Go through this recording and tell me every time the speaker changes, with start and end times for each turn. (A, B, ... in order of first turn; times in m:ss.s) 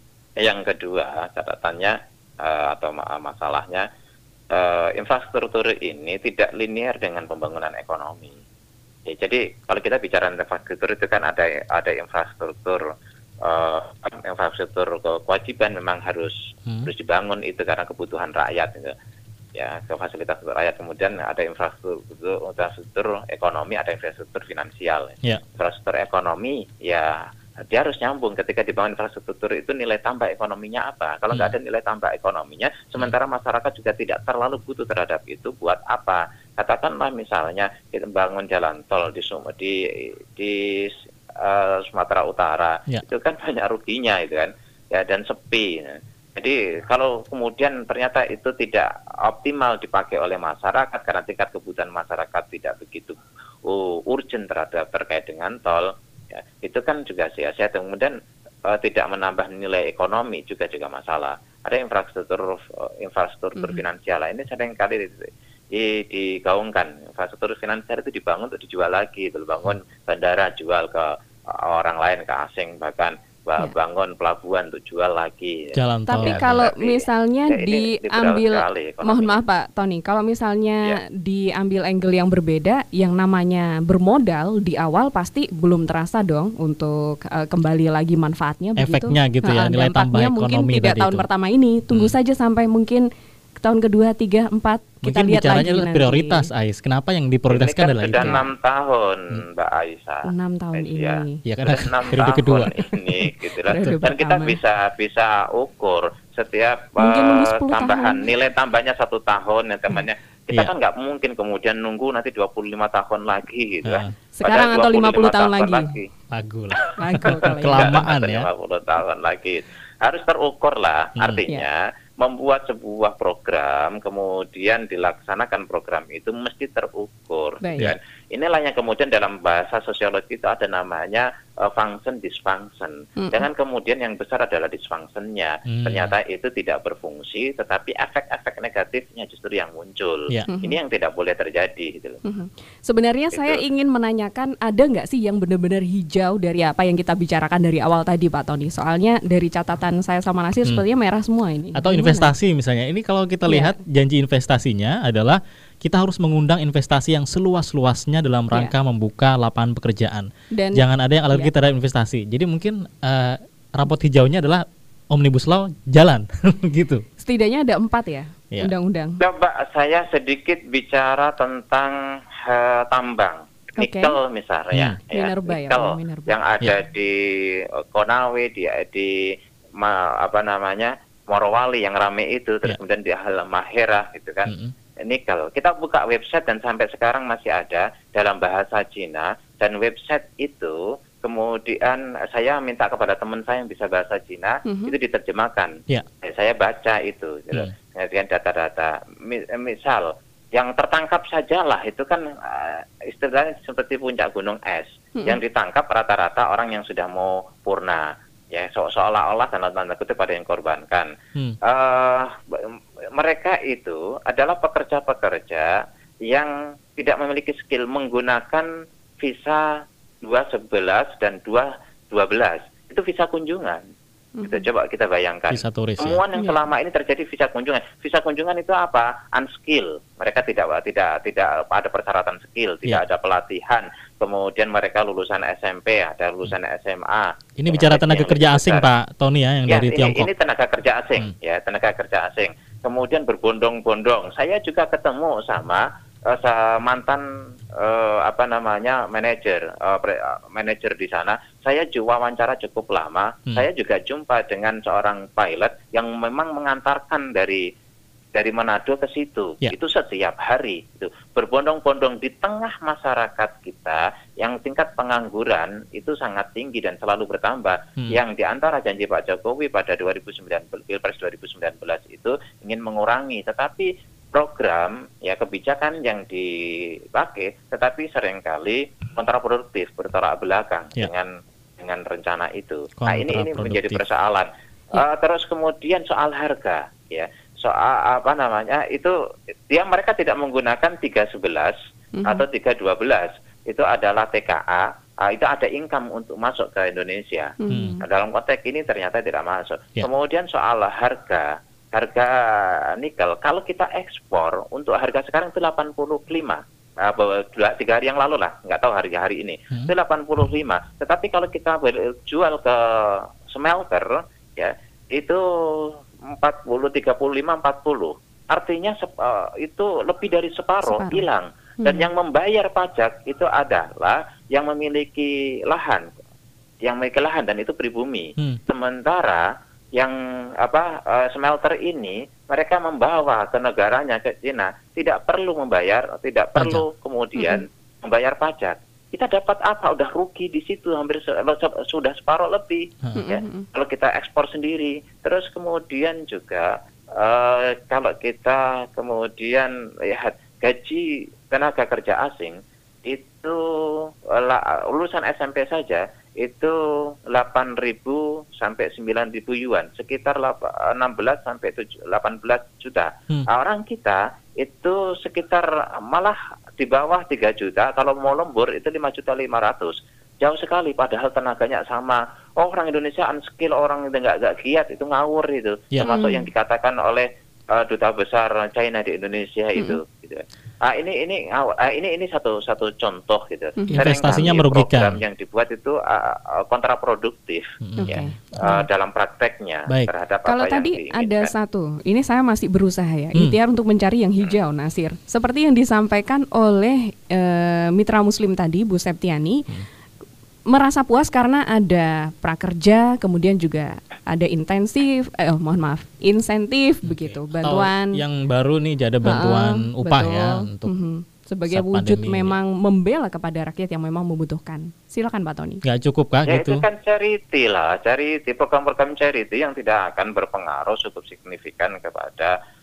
0:00.4-0:03.8 A
0:04.5-0:08.3 A
0:09.0-0:12.9 A
0:13.4-0:18.9 A
0:19.5-0:58.1 A
0:58.7-1:19.4 A
1:03.6-1:03.8 B
1:15.7-1:16.5 C
1:16.1-1:33.0 B
1:28.8-1:31.2 C
1:33.6-1:36.5 B
1:35.0-1:38.4 C
1:37.5-1:56.1 A
1:38.2-1:38.5 B
1:40.2-1:41.4 B
1:41.4-1:42.9 C
1:43.7-1:44.6 B
1:47.0-1:48.2 B
1:53.8-1:54.1 C
1:54.3-1:55.9 B
1:56.3-1:58.5 C
1:57.0-1:58.0 B
1:57.8-2:22.2 A
2:01.2-2:01.4 C
2:07.6-2:07.9 B
2:13.2-2:13.5 B
2:15.7-2:16.1 C
2:20.5-2:20.8 B
2:22.2-2:32.3 B
2:23.3-2:23.6 A
2:31.7-2:47.0 C
2:33.5-2:33.8 B
2:40.5-2:41.5 B
2:47.2-2:49.2 B
2:49.2-3:31.1 A
2:53.8-2:54.2 B
2:54.7-2:55.0 C
2:55.1-2:56.4 B
3:04.4-3:04.7 C
3:14.6-3:14.9 B
3:31.6-3:38.7 A
3:39.2-3:43.8 A
3:44.4-3:44.6 B
3:44.4-3:58.9 A
3:45.5-3:46.2 C
3:57.6-4:00.3 C
3:59.7-4:17.6 A
4:18.3-4:49.2 A
4:43.0-4:44.0 C
4:49.7-5:26.1 A
4:52.2-4:52.4 B
4:57.6-4:58.0 B
4:57.7-4:58.0 C
5:20.8-5:21.2 B
5:21.8-5:22.1 B
5:26.8-5:29.4 A
5:30.0-6:31.5 A
5:36.6-5:36.8 C
5:37.4-5:37.6 B
5:43.1-5:43.6 B
6:16.0-6:16.5 B
6:23.8-6:24.1 B
6:23.9-6:25.2 C
6:27.8-6:28.2 C
6:28.0-6:28.8 B
6:30.4-6:39.7 B
6:40.7-6:48.2 B
6:47.0-6:50.9 C
6:49.2-6:55.8 B
6:51.7-6:52.6 C
6:55.8-6:56.8 C
6:56.4-7:02.5 A